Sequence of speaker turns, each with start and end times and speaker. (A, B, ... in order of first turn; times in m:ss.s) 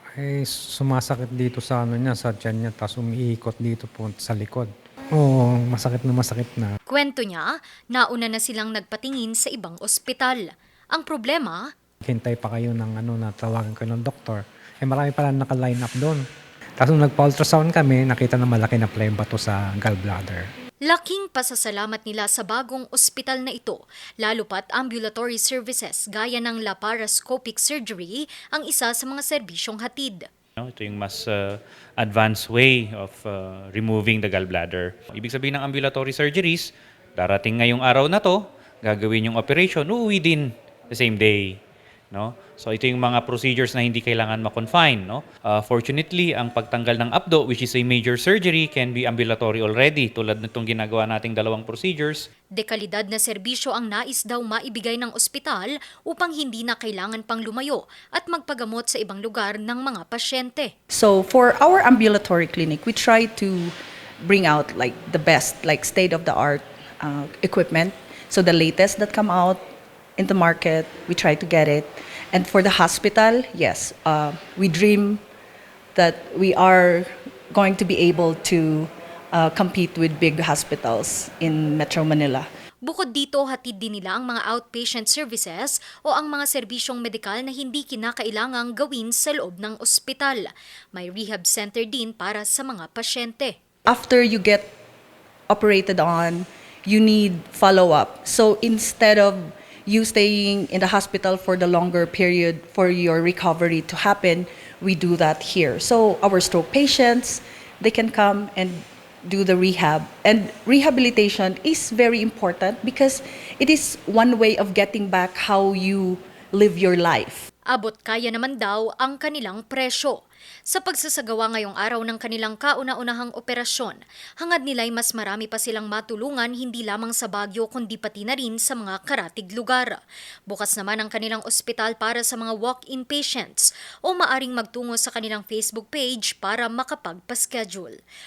0:00.2-0:06.8 A
0:06.9-0:11.7 B
0:12.0-0:16.2 A
0:16.8-0:20.5 A
0:20.8-0:30.3 B
0:30.6-0:41.6 C
0:42.1-0:52.2 C
0:52.6-1:00.7 B
1:00.9-1:09.6 D
1:10.2-1:15.2 D
1:16.0-1:22.5 D
1:22.8-1:33.6 B
1:33.9-1:34.7 D
1:35.5-1:57.5 D
1:57.7-2:18.0 B